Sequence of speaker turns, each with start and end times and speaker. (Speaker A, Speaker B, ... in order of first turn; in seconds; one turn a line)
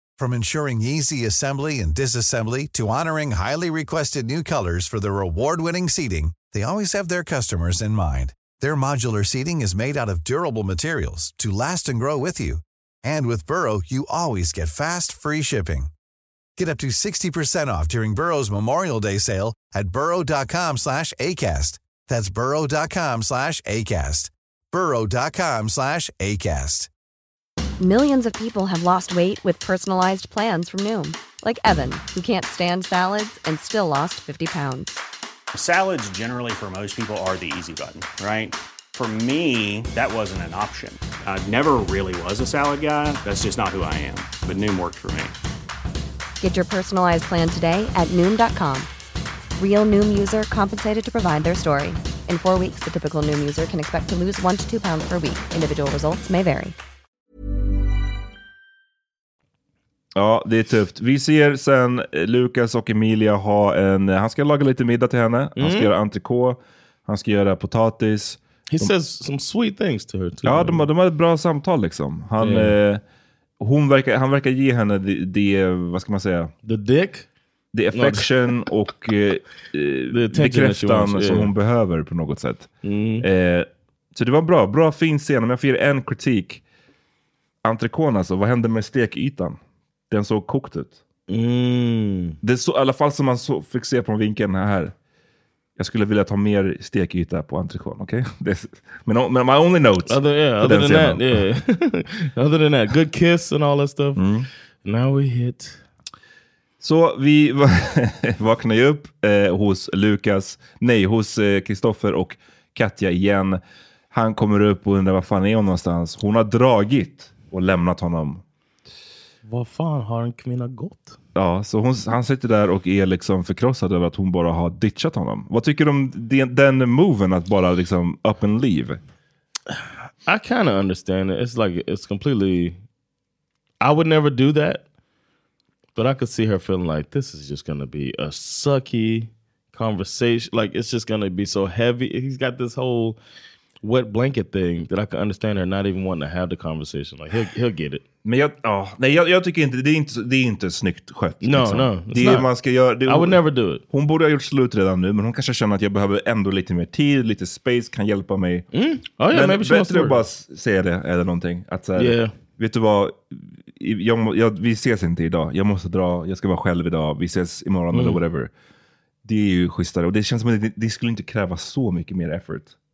Speaker A: 0.2-15.9
Speaker A: 16.6-26.9
Speaker B: 27.8-34.9
Speaker C: 35.5-45.3
Speaker B: 46.4-48.9
Speaker B: 49.6-56.7
Speaker D: 60.1-68.9
Speaker E: 65.6-65.9
Speaker E: 68.7-70.8
Speaker D: 70.4-73.0
Speaker E: 72.4-72.8
Speaker D: 73.6-76.5
Speaker E: 76.6-77.3
Speaker D: 77.7-86.6
Speaker E: 77.9-78.3
Speaker E: 80.1-81.5
Speaker E: 82.8-83.3
Speaker D: 87.6-89.6
Speaker D: 90.1-91.0
Speaker E: 91.3-92.4
Speaker D: 92.4-94.9
Speaker D: 95.8-101.4
Speaker E: 100.1-104.2
Speaker D: 104.2-104.5
Speaker E: 104.8-105.8
Speaker D: 106.8-113.6
Speaker D: 114.1-118.4
Speaker E: 119.4-121.2
Speaker D: 121.3-129.0
Speaker E: 129.7-132.8
Speaker E: 133.8-134.8
Speaker E: 135.9-143.2
Speaker E: 143.8-148.0
Speaker D: 148.2-158.7
Speaker E: 151.4-152.5
Speaker E: 153.1-153.8
Speaker E: 158.7-160.2
Speaker D: 159.3-168.5
Speaker E: 162.0-162.3
Speaker E: 167.9-168.2
Speaker D: 169.2-172.7